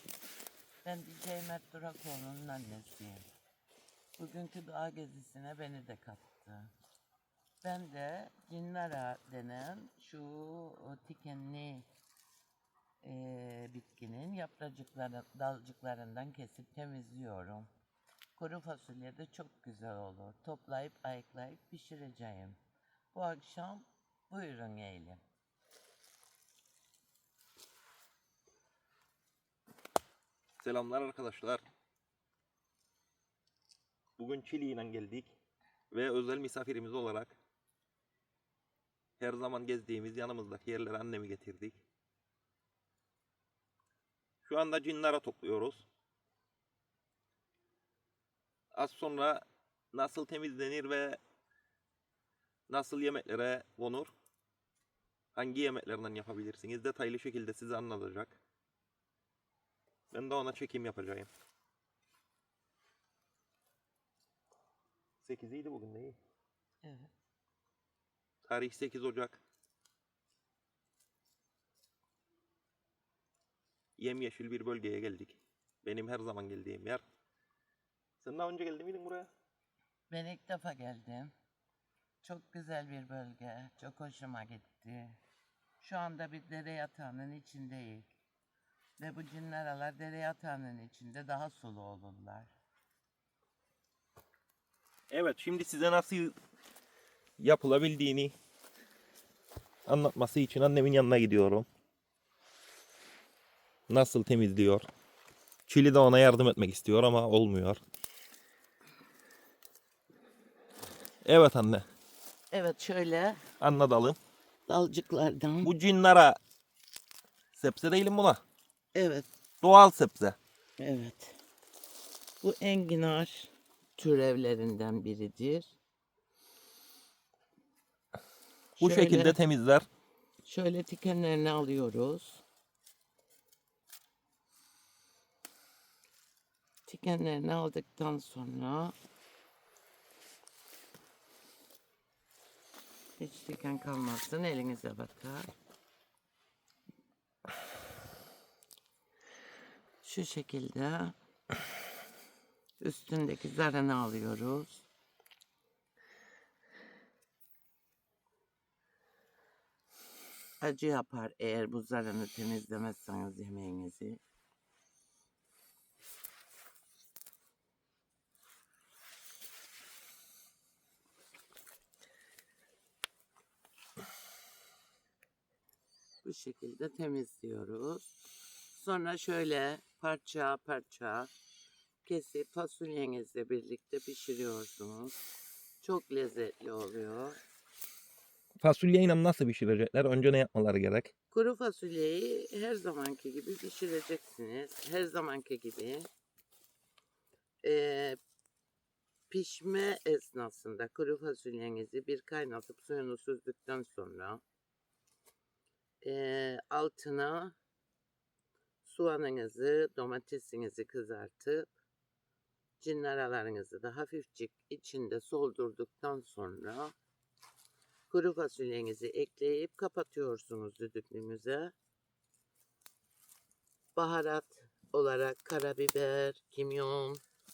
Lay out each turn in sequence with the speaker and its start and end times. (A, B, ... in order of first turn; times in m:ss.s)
0:00.8-0:03.2 A
0:04.2-0:06.7 A
0:07.6-0:11.9 A
0:13.0-0:17.7 A
0:18.4-0:22.6 A
0:23.1-0:25.2 A
0:30.6-0:31.6 B
0:34.2-0:35.3 B
0:35.9-0:37.3 B
0:39.2-0:41.8 B
0:44.4-0:45.8 B
0:48.7-0:51.2 B
0:52.7-0:54.1 B
0:55.3-0:58.4 B
1:00.1-1:01.3 B
1:05.2-1:06.2 B
1:06.8-1:07.1 A
1:08.4-1:09.4 B
1:14.0-1:17.0 B
1:18.2-1:19.3 B
1:20.1-1:21.3 A
1:22.2-1:25.2 A
1:25.8-1:28.1 A
1:29.0-1:32.5 A
1:35.1-1:36.3 B
1:37.4-1:38.3 B
1:39.8-1:41.7 B
1:43.9-1:44.9 B
1:45.7-1:47.8 B
1:51.2-1:51.8 B
1:52.5-1:53.4 A
1:53.6-1:54.2 B
1:54.7-1:55.7 A
1:55.6-1:56.4 B
1:57.5-1:58.4 B
1:58.9-1:59.3 A
1:59.6-2:00.4 B
2:00.8-2:01.4 A
2:02.4-2:05.8 A
2:08.8-2:09.4 A
2:08.8-2:09.8 B
2:10.4-2:12.4 A
2:16.8-2:18.9 A
2:23.2-2:25.5 A
2:30.0-2:31.1 A
2:32.8-2:34.8 A
2:40.6-2:44.2 A
2:56.2-2:58.2 A
2:58.7-3:01.3 A
3:02.0-3:05.2 A
3:05.8-3:07.4 A
3:08.6-3:11.1 B
3:11.3-3:16.1 A
3:17.6-3:18.2 A
3:19.3-3:24.4 A
3:26.0-3:27.6 A
3:28.8-3:31.7 A
3:32.8-3:36.9 A
3:38.1-3:41.7 A
3:43.9-3:47.2 A